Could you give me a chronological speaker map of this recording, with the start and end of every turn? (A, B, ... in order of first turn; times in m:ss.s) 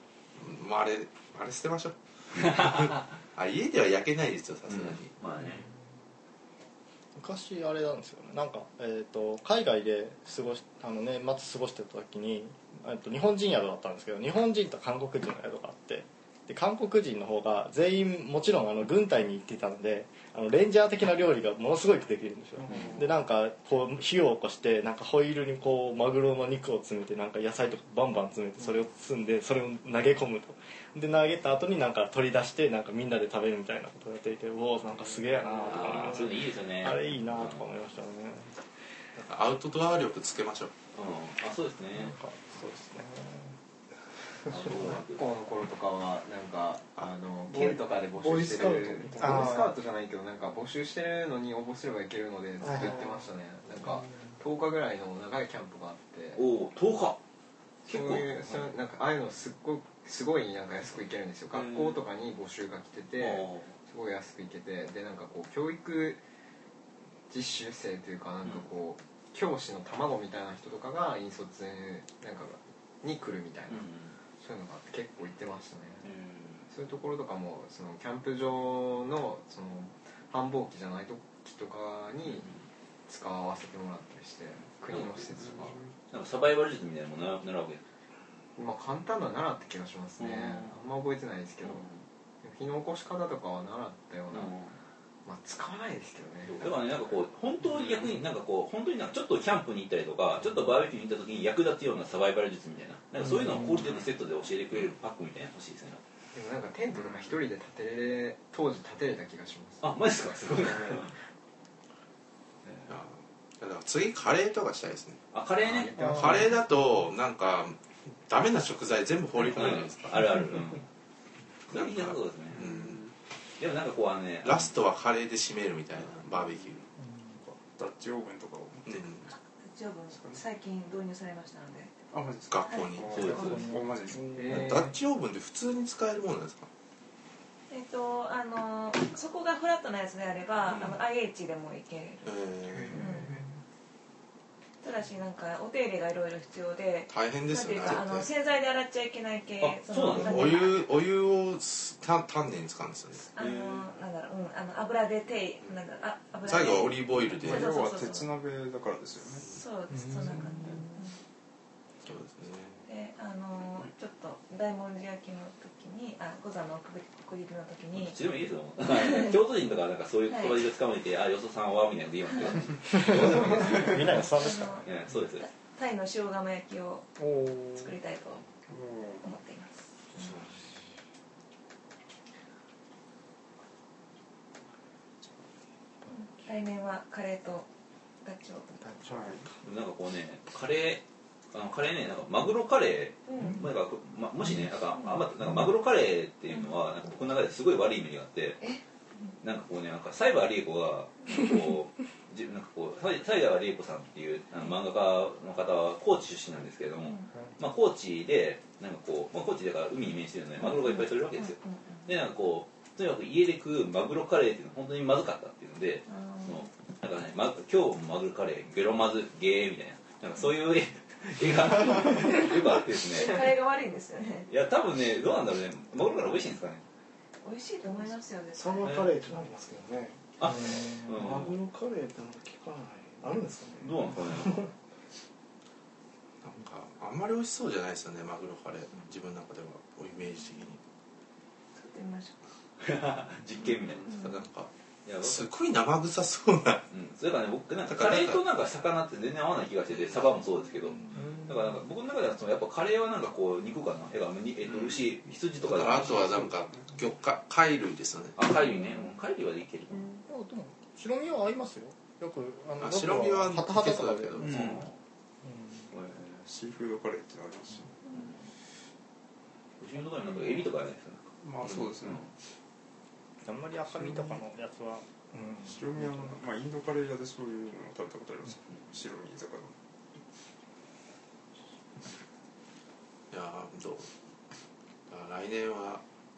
0:00.4-0:05.1 A
0:02.4-0:03.0 B
0:04.7-0:05.6 B
0:07.2-0:38.5 C
0:35.5-0:37.6 B
0:39.2-0:40.7 A
0:40.9-0:42.1 B
0:41.9-0:43.5 C
0:44.5-0:45.2 B
0:44.8-0:56.4 D
0:47.5-0:49.7 E
0:49.3-0:49.7 C
0:52.6-0:53.1 E
0:56.4-0:57.2 B
0:57.8-0:58.6 B
0:57.8-1:06.2 D
1:01.5-1:02.0 B
1:03.2-1:03.7 B
1:07.3-1:16.1 D
1:13.7-1:14.1 B
1:16.0-1:16.6 B
1:16.7-1:22.5 D
1:23.1-1:25.8 D
1:26.1-1:27.8 B
1:28.6-1:31.8 D
1:30.2-1:30.7 B
1:31.6-1:32.0 B
1:32.4-1:34.5 D
1:34.3-1:34.7 B
1:35.2-1:36.7 D
1:36.5-1:46.0 B
1:43.2-1:43.8 C
1:46.3-1:49.9 D
1:49.8-1:51.1 B
1:50.5-1:51.1 D
1:52.9-1:55.2 A
1:55.3-1:56.0 B
1:55.6-1:56.6 D
1:56.0-2:00.4 A
1:59.4-2:00.9 B
2:01.7-2:03.0 A
2:01.7-2:02.8 B
2:02.6-2:03.1 F
2:03.6-2:04.7 B
2:04.4-2:06.8 A
2:07.4-2:09.2 F
2:08.9-2:09.3 A
2:09.6-2:12.1 G
2:10.1-2:10.4 F
2:12.1-2:14.6 F
2:12.5-2:13.4 A
2:12.7-2:13.8 G
2:13.1-2:13.4 B
2:13.3-2:14.2 C
2:14.3-2:15.0 D
2:14.5-2:16.7 A
2:17.7-2:22.3 G
2:20.7-2:21.0 A
2:22.2-2:23.0 A
2:22.9-2:23.3 G
2:24.8-2:30.8 G
2:27.1-2:28.3 A
2:29.6-2:30.6 B
2:30.0-2:33.3 A
2:33.3-2:38.3 G
2:33.4-2:33.8 B
2:36.4-2:37.7 A
2:37.4-2:39.6 F
2:39.4-2:41.2 G
2:40.1-2:40.7 C
2:42.0-2:42.8 A
2:42.8-2:48.2 G
2:47.9-2:54.2 B
2:49.0-2:49.3 G
2:50.3-2:50.6 G
2:53.0-2:54.8 C
2:54.0-2:54.9 G
2:54.8-2:55.4 B
2:55.4-2:58.4 G
2:57.3-2:57.7 C
2:58.7-2:59.3 F
2:59.2-2:59.8 G
3:06.1-3:07.7 G
3:08.2-3:09.1 G
3:09.0-3:09.5 F
3:09.6-3:18.6 B
3:13.3-3:13.6 G
3:18.6-3:19.3 G
3:19.4-3:43.4 B
3:30.6-3:32.0 G
3:36.1-3:36.7 G
3:43.1-3:44.5 G
3:44.5-3:46.8 B
3:47.4-3:48.9 G
3:48.6-3:54.7 E
3:48.8-3:49.1 B
3:50.4-3:51.6 B
3:53.8-3:54.7 B
3:56.4-4:00.8 A
4:01.7-4:02.4 G
4:02.8-4:04.1 B
4:04.1-4:04.7 A
4:05.0-4:05.5 B
4:05.2-4:06.9 A
4:06.9-4:16.3 B
4:07.8-4:08.4 A
4:15.6-4:18.4 A
4:16.1-4:16.9 F
4:18.4-4:20.1 B
4:20.3-4:24.6 C
4:22.8-4:24.8 A
4:24.4-4:25.0 B
4:25.9-4:26.4 B
4:26.4-4:27.9 F
4:29.8-4:31.3 B
4:31.4-4:32.3 F
4:33.4-4:36.2 C
4:35.6-4:39.7 F
4:43.3-4:44.1 A
4:45.1-4:46.0 A